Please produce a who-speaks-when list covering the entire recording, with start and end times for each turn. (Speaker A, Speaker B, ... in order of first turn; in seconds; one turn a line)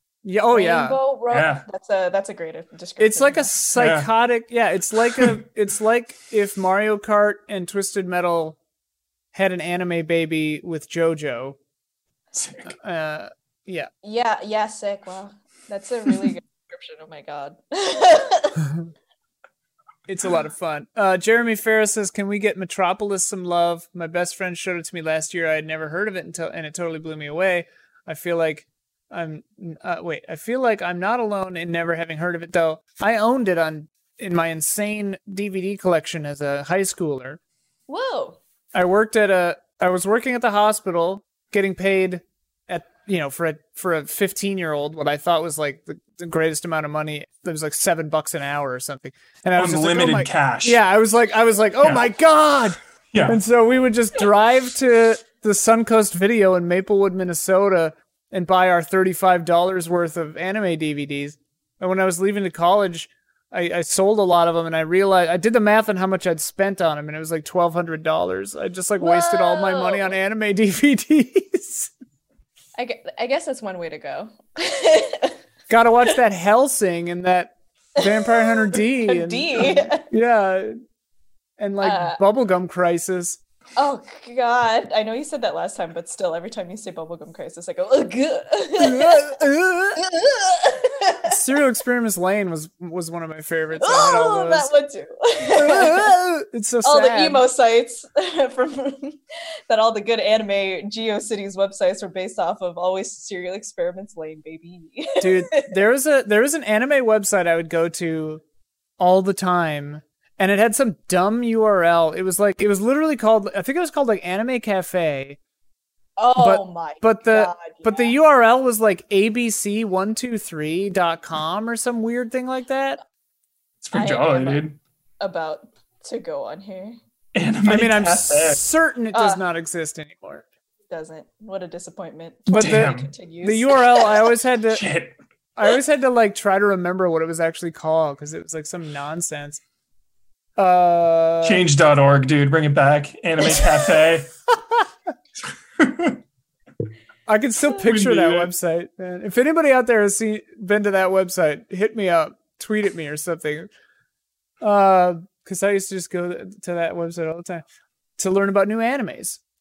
Speaker A: 0.2-1.0
Speaker B: 0.5-3.5
Speaker C: 1.3-1.6
Speaker A: 3.0-8.6
Speaker C: 3.8-4.1
Speaker A: 9.3-11.6
Speaker C: 12.3-12.7
Speaker A: 12.7-13.9
Speaker B: 14.0-18.7
Speaker A: 20.1-37.4
Speaker B: 37.9-38.4
Speaker A: 38.7-71.9
Speaker C: 49.6-50.8
Speaker C: 51.8-52.1
Speaker C: 53.1-53.4
Speaker B: 69.0-70.2
Speaker B: 72.8-75.4
Speaker A: 75.7-80.8
Speaker B: 78.0-80.0
Speaker A: 81.6-83.4
Speaker B: 81.8-82.2
Speaker B: 83.8-89.4
Speaker A: 88.8-90.0
Speaker B: 90.0-91.4
Speaker A: 91.2-94.7
Speaker B: 93.8-96.2
Speaker A: 95.6-97.4
Speaker B: 96.8-105.7
Speaker A: 105.2-108.4
Speaker A: 109.0-115.4
Speaker B: 116.2-118.1
Speaker A: 116.4-123.0
Speaker C: 123.8-124.8
Speaker B: 123.9-124.7
Speaker B: 125.2-127.0
Speaker C: 127.3-128.6
Speaker A: 127.7-130.5
Speaker B: 129.1-129.4
Speaker B: 130.9-134.2
Speaker A: 132.5-134.8
Speaker C: 132.5-133.1
Speaker C: 134.7-135.2
Speaker A: 135.6-139.6
Speaker A: 140.6-141.6
Speaker C: 141.4-144.3
Speaker C: 145.8-146.2
Speaker A: 147.3-153.7
Speaker C: 147.7-148.5
Speaker A: 154.6-157.6
Speaker A: 158.2-159.4